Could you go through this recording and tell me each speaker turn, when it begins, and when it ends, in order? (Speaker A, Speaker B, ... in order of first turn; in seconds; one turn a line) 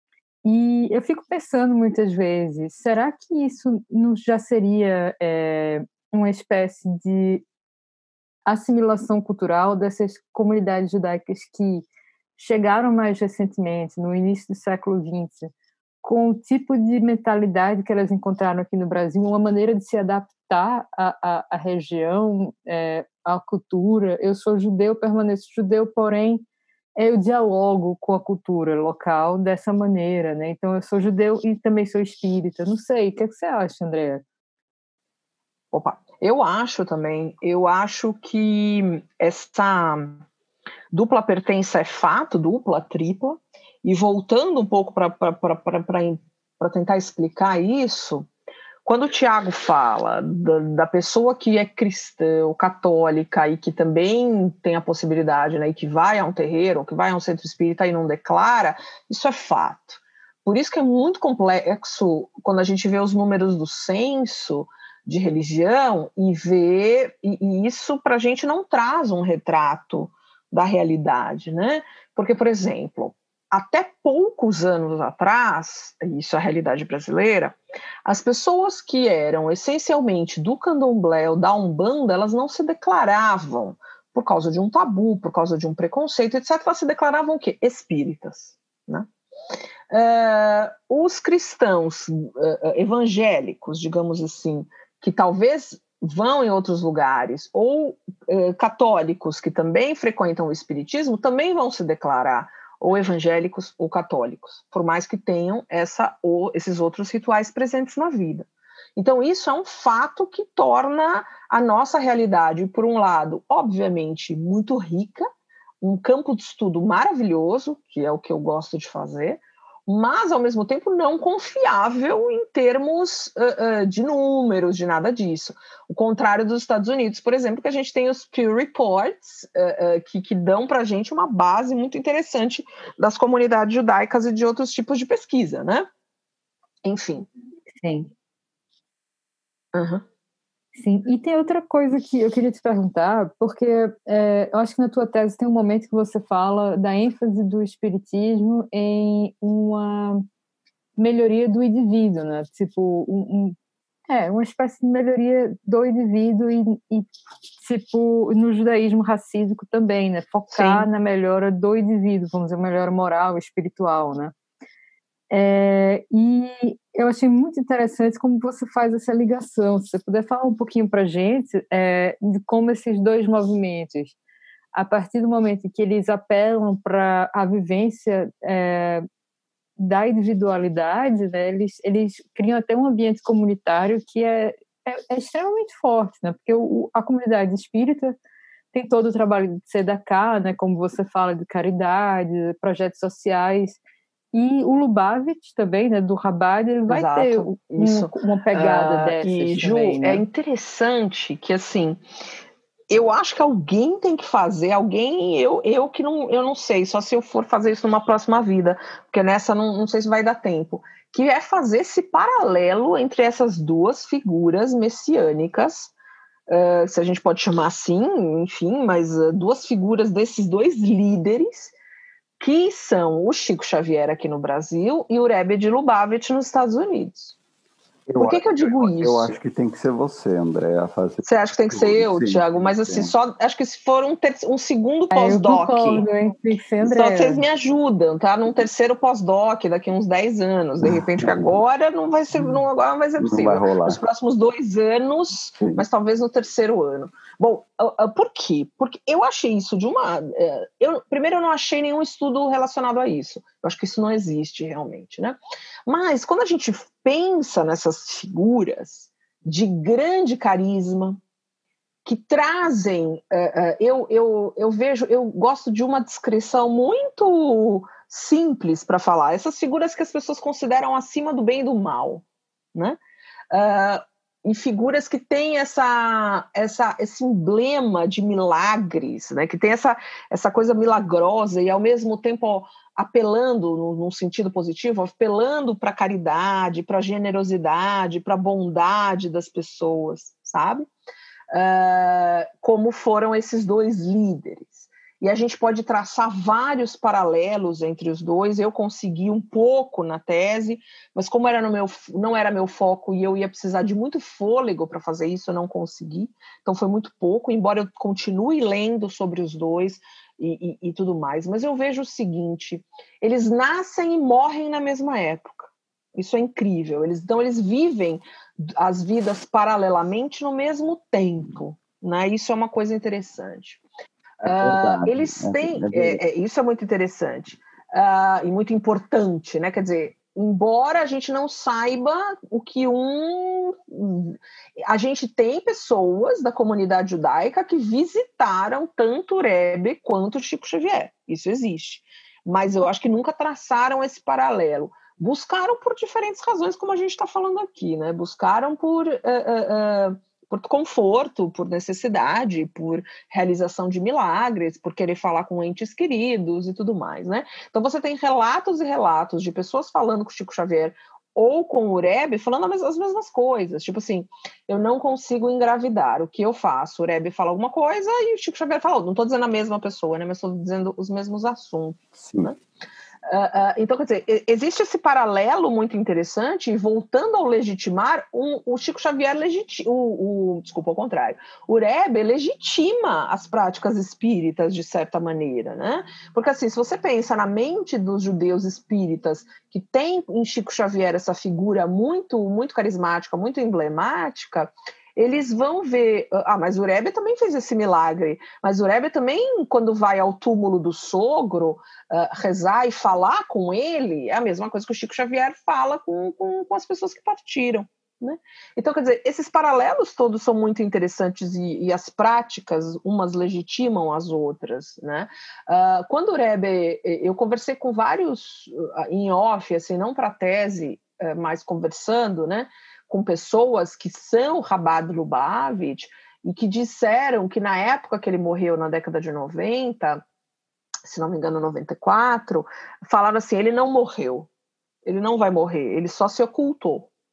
Speaker A: 0.4-7.4
Speaker A: 8.5-11.9
Speaker A: 12.4-15.5
Speaker A: 16.0-26.4
Speaker A: 27.0-34.2
Speaker B: 35.7-40.2
Speaker B: 40.9-48.3
Speaker B: 48.9-89.1
Speaker B: 89.9-115.3
Speaker B: 115.8-135.9
Speaker B: 136.8-137.3
Speaker A: 137.8-138.1
Speaker B: 139.7-140.0
Speaker A: 140.8-150.2
Speaker A: 151.0-153.6
Speaker A: 154.1-164.3
Speaker B: 160.5-160.9
Speaker A: 165.3-174.2
Speaker A: 174.7-179.1
Speaker A: 179.8-188.2
Speaker A: 188.7-193.8
Speaker A: 194.3-200.2
Speaker B: 196.9-202.0
Speaker B: 202.9-215.9
Speaker B: 216.5-221.7
Speaker B: 222.4-227.4
Speaker C: 228.1-233.1
Speaker B: 228.2-229.3
Speaker B: 231.2-236.1
Speaker A: 235.1-237.4
Speaker B: 236.8-261.2
Speaker C: 240.8-241.5
Speaker C: 242.3-242.7
Speaker C: 243.2-244.0
Speaker C: 245.6-245.8
Speaker B: 262.1-272.2
Speaker B: 273.5-290.9
Speaker B: 291.5-323.8
Speaker C: 324.4-326.2
Speaker B: 324.4-372.6
Speaker C: 372.2-372.5
Speaker B: 373.3-430.2
Speaker B: 431.0-434.5
Speaker B: 435.1-437.1